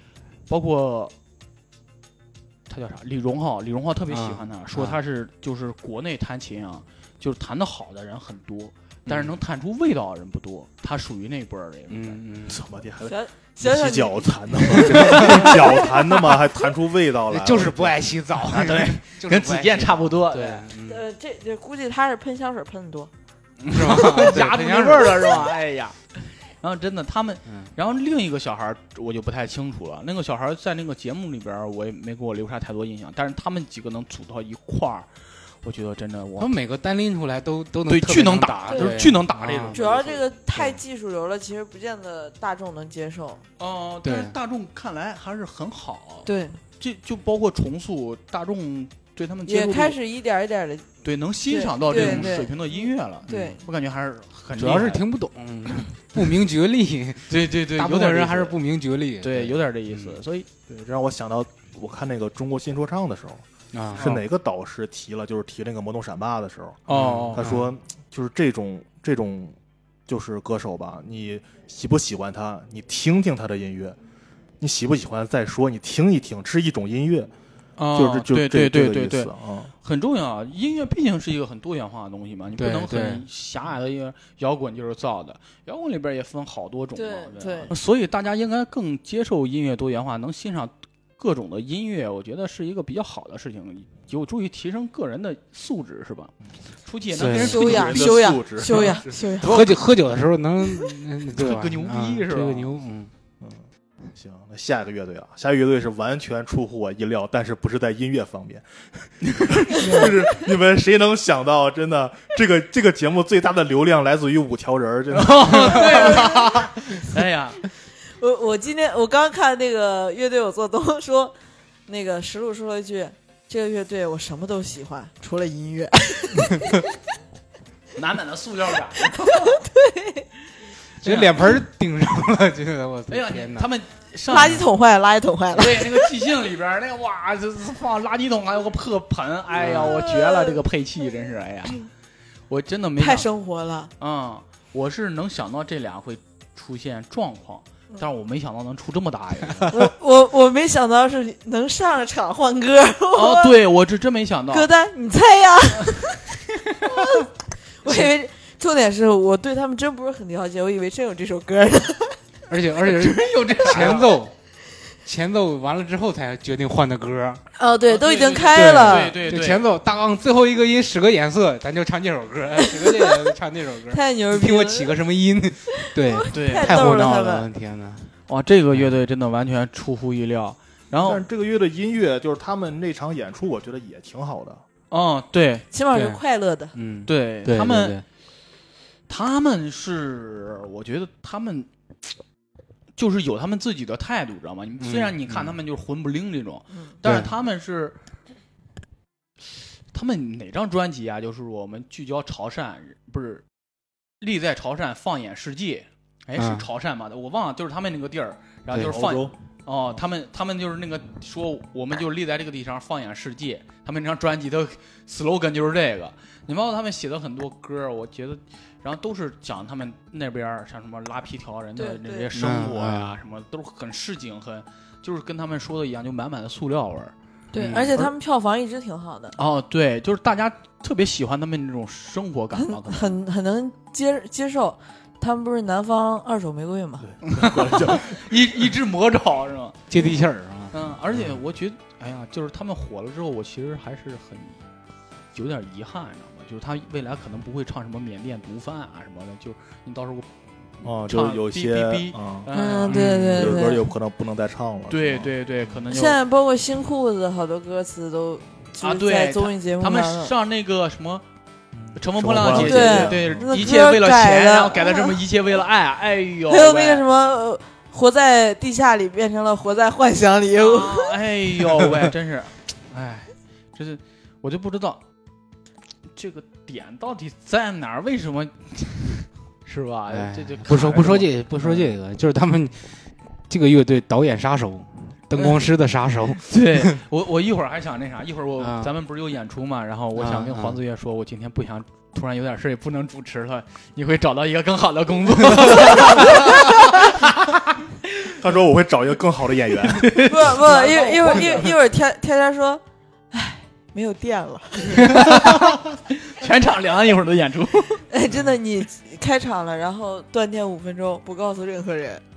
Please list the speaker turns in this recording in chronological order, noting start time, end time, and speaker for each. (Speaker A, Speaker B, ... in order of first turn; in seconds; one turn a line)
Speaker A: 0.5-1.1
Speaker A: 2.7-12.2
Speaker B: 4.1-5.0
Speaker B: 9.1-9.4
Speaker B: 11.9-12.6
Speaker C: 12.5-18.1
Speaker D: 13.0-15.9
Speaker B: 15.1-15.5
Speaker A: 15.1-15.5
Speaker B: 17.3-21.0
Speaker A: 18.4-20.7
Speaker D: 20.8-23.1
Speaker A: 23.6-35.1
Speaker B: 23.7-25.5
Speaker A: 35.6-36.6
Speaker B: 36.4-39.8
Speaker A: 37.9-40.2
Speaker D: 38.7-39.0
Speaker D: 39.7-43.4
Speaker A: 43.6-50.0
Speaker B: 44.0-44.4
Speaker D: 46.2-46.6
Speaker D: 49.5-50.9
Speaker A: 51.0-55.0
Speaker D: 51.5-53.6
Speaker B: 52.0-52.3
Speaker B: 54.5-60.2
Speaker A: 57.3-58.6
Speaker A: 59.2-60.5
Speaker C: 60.7-69.6
Speaker B: 63.7-64.1
Speaker A: 64.0-64.2
Speaker A: 66.9-67.4
Speaker B: 66.9-67.7
Speaker C: 70.1-74.0
Speaker C: 74.6-77.3
Speaker A: 77.8-96.3
Speaker C: 77.9-79.7
Speaker B: 82.6-83.2
Speaker D: 87.0-87.8
Speaker A: 96.8-99.8
Speaker B: 97.1-97.9
Speaker C: 97.2-99.1
Speaker D: 97.3-99.6
Speaker B: 99.4-103.1
Speaker A: 101.3-102.7
Speaker C: 104.1-116.7
Speaker A: 109.2-110.3
Speaker A: 115.1-117.6
Speaker D: 115.9-116.5
Speaker D: 118.1-121.3
Speaker D: 121.9-126.8
Speaker A: 128.0-129.6
Speaker D: 129.4-130.2
Speaker A: 131.0-131.6
Speaker B: 131.0-133.7
Speaker A: 133.1-134.7
Speaker D: 134.3-136.1
Speaker A: 135.5-141.9
Speaker B: 139.6-140.0
Speaker D: 139.9-140.6
Speaker A: 142.5-143.3
Speaker D: 143.0-143.9
Speaker A: 144.0-149.9
Speaker D: 149.7-153.6
Speaker A: 153.1-154.7
Speaker D: 154.5-156.2
Speaker D: 156.8-157.2
Speaker D: 157.8-162.2
Speaker B: 162.5-164.3
Speaker A: 162.8-164.2
Speaker B: 165.0-167.4
Speaker D: 167.6-169.2
Speaker A: 167.9-169.7
Speaker B: 168.5-178.1
Speaker D: 172.6-173.3
Speaker D: 173.9-174.9
Speaker D: 175.8-177.4
Speaker A: 176.3-176.9
Speaker A: 178.3-181.2
Speaker C: 181.0-184.6
Speaker A: 184.9-185.7
Speaker D: 185.7-186.7
Speaker B: 185.9-186.2
Speaker B: 186.7-188.1
Speaker A: 187.1-188.0
Speaker A: 189.1-191.7
Speaker A: 193.0-198.0
Speaker B: 194.8-195.6
Speaker B: 197.0-197.3
Speaker A: 199.9-203.4
Speaker A: 204.2-227.1
Speaker B: 206.4-206.7
Speaker C: 208.7-209.3
Speaker D: 221.8-222.3
Speaker B: 222.3-223.2
Speaker D: 227.5-229.4
Speaker B: 227.6-228.0
Speaker A: 229.4-233.2
Speaker D: 232.6-237.1
Speaker C: 237.1-238.3
Speaker A: 237.2-239.8
Speaker B: 239.9-240.8
Speaker A: 240.7-244.6
Speaker A: 245.3-250.3
Speaker C: 250.8-252.5
Speaker A: 251.0-253.7
Speaker D: 252.5-253.9
Speaker B: 252.9-253.6
Speaker C: 253.3-255.3
Speaker A: 254.9-256.2
Speaker D: 255.9-260.3
Speaker A: 258.8-261.2
Speaker C: 261.7-263.7
Speaker A: 262.0-267.0
Speaker D: 262.5-265.2
Speaker D: 266.5-271.1
Speaker A: 270.6-275.0
Speaker A: 276.1-281.9
Speaker B: 280.1-287.0
Speaker A: 285.3-285.7
Speaker A: 286.5-297.8
Speaker B: 288.6-288.9
Speaker B: 290.1-290.8
Speaker D: 295.9-296.7
Speaker C: 298.4-300.5
Speaker A: 299.9-301.7
Speaker D: 300.2-305.4
Speaker C: 301.2-301.7
Speaker A: 305.0-308.0
Speaker D: 308.1-312.2